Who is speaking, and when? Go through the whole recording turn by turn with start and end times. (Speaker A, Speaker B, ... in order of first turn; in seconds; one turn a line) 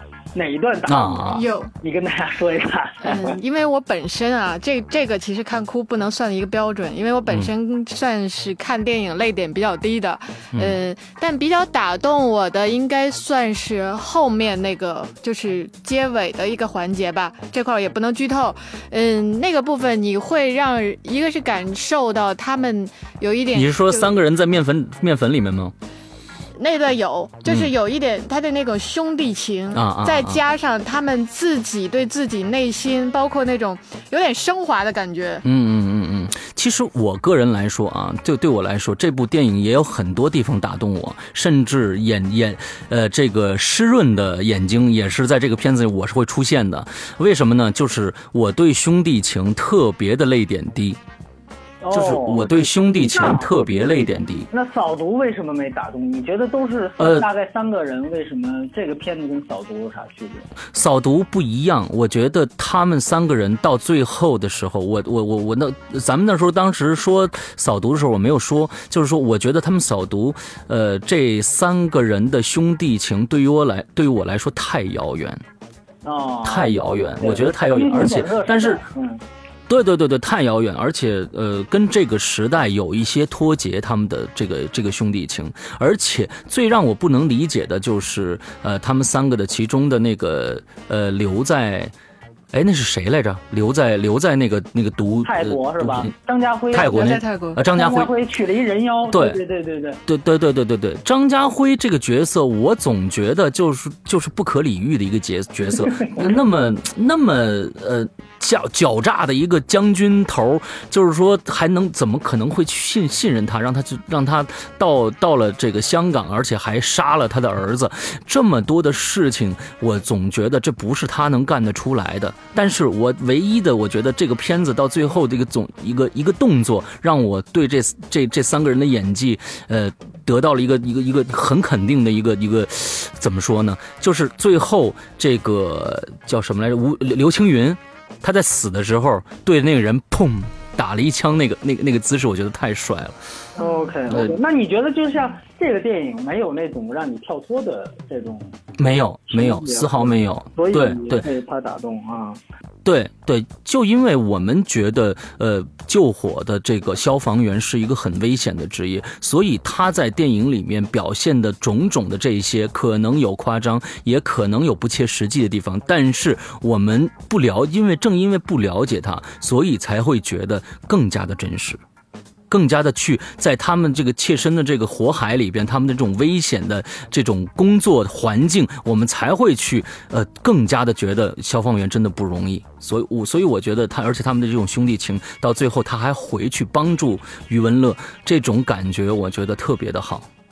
Speaker A: 0.3-3.4
Speaker B: 0.9-1.5
Speaker C: 1.3-1.7
Speaker C: 3.0-24.1
Speaker B: 23.5-25.7
Speaker C: 26.6-35.5
Speaker B: 27.5-27.7
Speaker B: 29.7-30.4
Speaker B: 35.4-51.0
Speaker A: 51.8-53.7
Speaker B: 51.9-54.5
Speaker A: 54.5-60.5
Speaker B: 57.0-57.3
Speaker B: 60.7-75.4
Speaker A: 76.0-79.2
Speaker B: 76.4-78.8
Speaker B: 79.7-91.9
Speaker B: 92.5-96.1
Speaker A: 95.2-100.0
Speaker B: 96.7-98.1
Speaker C: 96.8-97.6
Speaker B: 99.1-99.4
Speaker B: 100.1-143.2
Speaker A: 143.6-148.6
Speaker C: 143.6-143.9
Speaker B: 144.1-144.4
Speaker B: 148.8-151.3
Speaker A: 149.3-152.4
Speaker B: 152.8-171.8
Speaker B: 172.5-190.3